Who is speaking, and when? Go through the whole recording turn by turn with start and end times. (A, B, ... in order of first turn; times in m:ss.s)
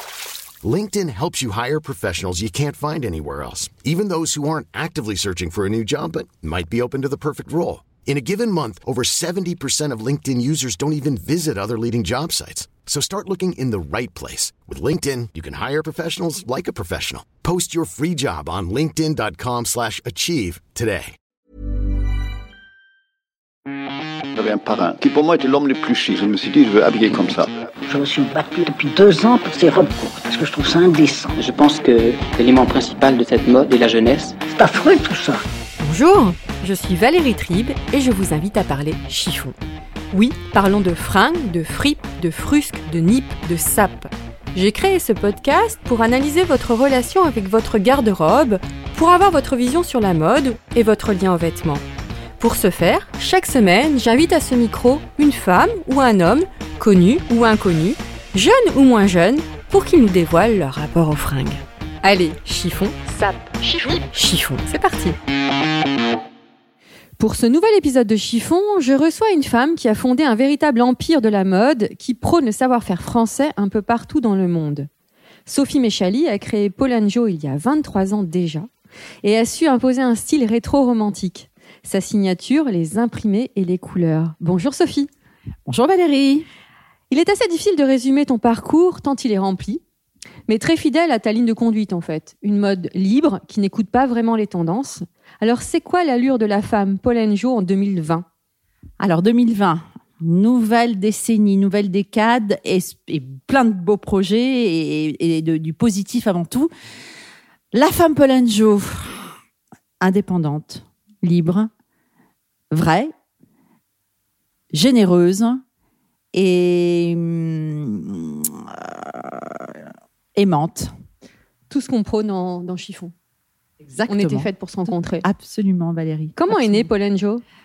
0:00.6-0:21.2 A
0:24.4-0:27.7 B
0:27.9-0:31.5 C
0:31.4-0:34.4 D
0:34.5-0:35.4 C
0:35.8-0:39.6 E
0:40.1-0:51.8 E
0:52.4-1:05.2 E
1:07.2-1:14.9 E
1:15.4-1:18.7 E
1:19.2-1:25.1 E
1:25.6-1:26.4 F
1:27.1-1:29.8 E
1:30.5-1:38.2 E
1:39.0-1:46.7 F
1:47.7-1:49.3 F
1:50.0-1:51.7 F
1:52.7-1:53.1 F
1:54.7-1:55.6 F
1:56.3-1:59.8 F
2:00.3-2:00.9 F
2:01.7-2:03.1 E
2:03.8-2:04.5 F
2:04.1-2:05.2 E
2:05.2-2:06.9 F
2:06.4-2:07.4 E